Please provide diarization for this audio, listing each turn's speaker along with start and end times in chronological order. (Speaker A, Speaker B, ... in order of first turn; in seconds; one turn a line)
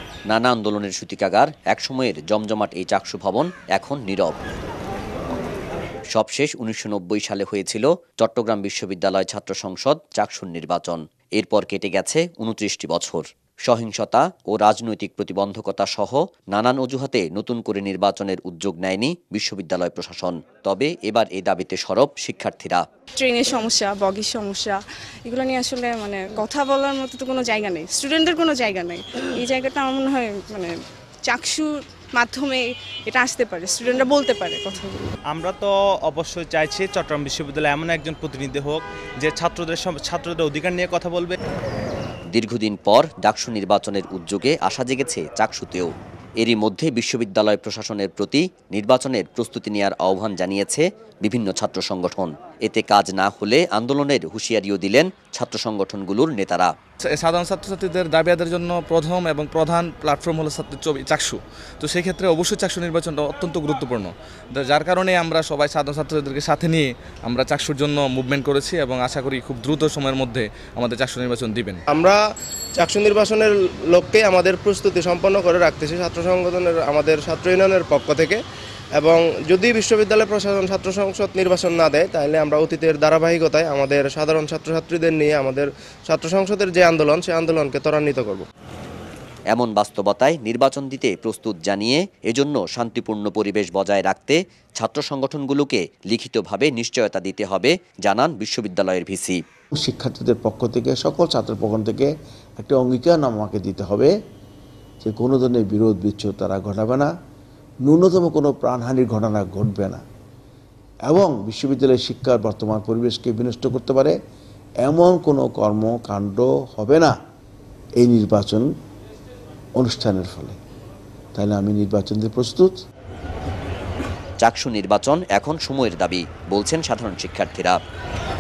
Speaker A: 0.3-4.3
Speaker A: 6.1-22.8
Speaker B: 23.2-30.7
Speaker B: 31.3-35.1
Speaker C: 35.3-41.4
Speaker A: 42.3-56.7
Speaker D: 57.0-71.8
Speaker E: 71.9-72.2
Speaker E: 72.8-78.4
Speaker E: 79.0-88.4
Speaker A: 89.5-99.4
Speaker F: 99.8-104.1
Speaker F: 105.0-107.1
Speaker F: 107.8-110.0
Speaker F: 111.0-114.1
Speaker F: 114.8-117.1
Speaker F: 118.0-118.6
Speaker F: 119.8-120.5
Speaker F: 121.3-122.7
Speaker A: 124.4-127.8